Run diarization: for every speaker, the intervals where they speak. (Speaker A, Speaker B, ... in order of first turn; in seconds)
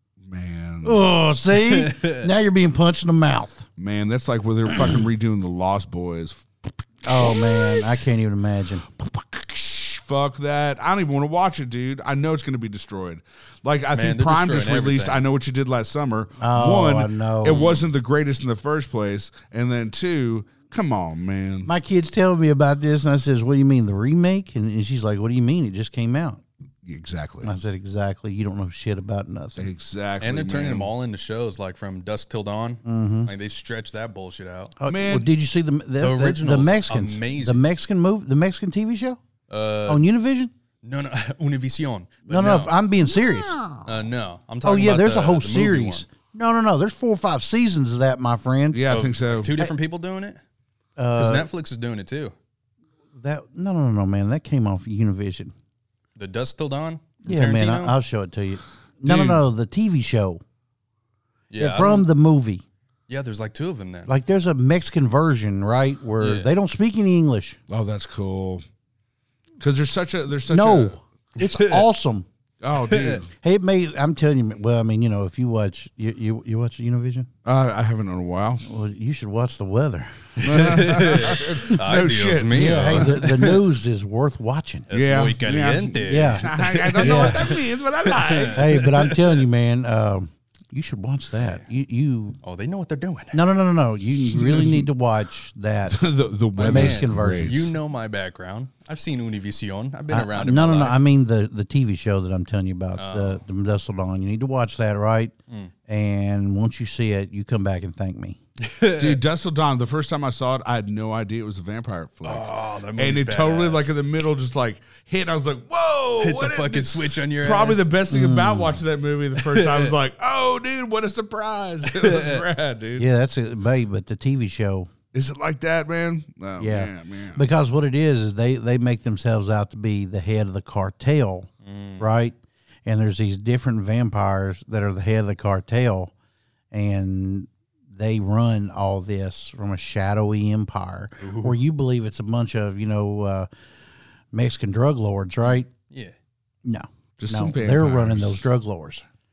Speaker A: 0.3-1.1, 3.8-7.9, 8.9-21.7, 26.9-27.5, 29.6-30.9, 34.9-35.3, 48.7-49.5, 59.0-59.4, 67.7-68.6, 69.6-71.0, 72.6-73.3, 77.4-78.6, 80.4-83.2, 84.9-88.8, 94.4-94.8, 95.9-97.7, 109.0-123.1, 125.1-127.4, 147.2-148.4
Speaker B: 0.8-3.6, 7.0-8.9, 16.4-17.7, 21.6-26.4, 27.4-29.7, 32.9-33.3, 34.8-39.2, 39.9-40.5, 42.3-43.9, 44.6-48.9, 51.0-51.5, 53.1-55.5, 57.2-60.4, 61.6-62.6, 64.1-67.6, 70.5-72.3, 73.4-77.3, 78.6-81.3, 82.5-84.9, 86.1-87.5, 88.5-92.4, 93.3-96.0, 96.6-97.7, 100.1-105.3, 105.9-108.4, 118.1-118.8, 123.0-124.9, 126.6-136.1, 136.7-143.5, 144.3-145.7, 146.6-149.0
Speaker C: 1.7-2.3, 13.9-15.2, 17.5-17.8, 30.2-34.8, 36.0-37.6, 39.5-40.0, 40.8-42.7, 43.8-46.1, 48.9-50.4, 51.1-52.3, 56.2-58.0, 61.5-62.1, 63.1-64.1, 66.2-66.5, 71.4-71.8, 72.8-73.2, 80.5-83.6, 84.9-89.4, 91.4-91.7, 92.4-93.4, 96.6-101.0, 103.0-103.4, 108.6-109.2, 112.2-113.9, 116.2-117.9, 119.4-119.9, 121.9-122.4, 131.6-132.1, 141.2-141.6, 145.9-146.1